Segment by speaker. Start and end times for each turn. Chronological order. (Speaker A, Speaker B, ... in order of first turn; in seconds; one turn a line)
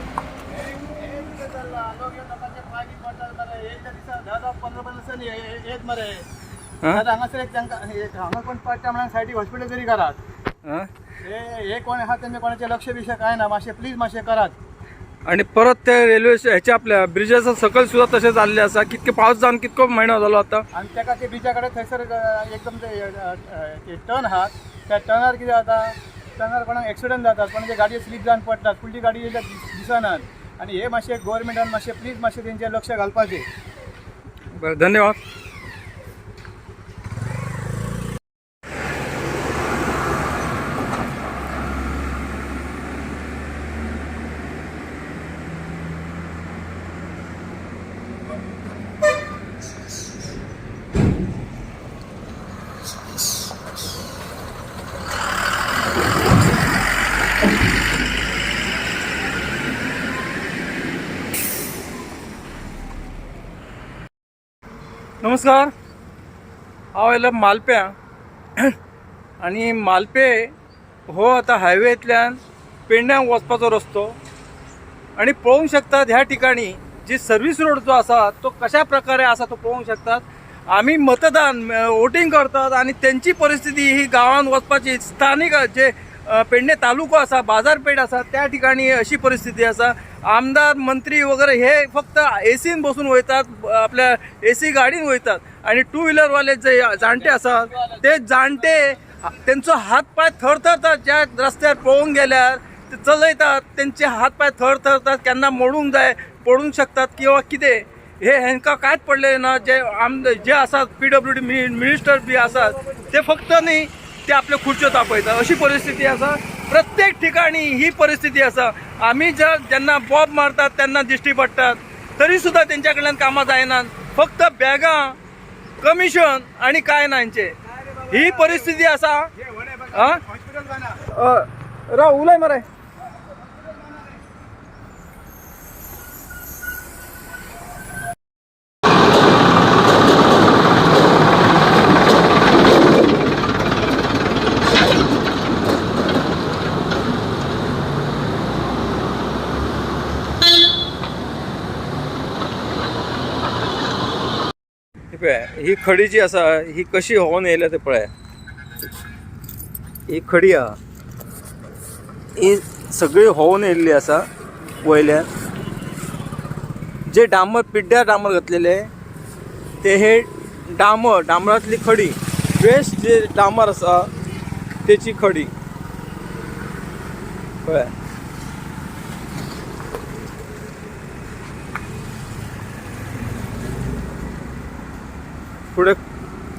Speaker A: 0.7-6.3
Speaker A: 6.9-10.2
Speaker B: 10.7-10.9
Speaker A: 11.2-14.6
Speaker B: 15.3-20.6
Speaker A: 20.7-33.5
Speaker B: 34.5-35.2
Speaker B: 65.2-65.7
Speaker B: 66.9-68.0
Speaker B: 69.4-70.5
Speaker B: 71.1-74.2
Speaker B: 75.2-125.2
Speaker B: 125.8-130.3
Speaker A: 130.4-130.7
Speaker B: 130.9-132.7
Speaker B: 155.1-158.1
Speaker B: 160.1-160.8
Speaker B: 162.3-164.3
Speaker B: 164.8-165.3
Speaker B: 167.1-168.9
Speaker B: 169.8-174.1
Speaker B: 174.8-175.5
Speaker B: 177.6-177.9
Speaker B: 185.7-186.0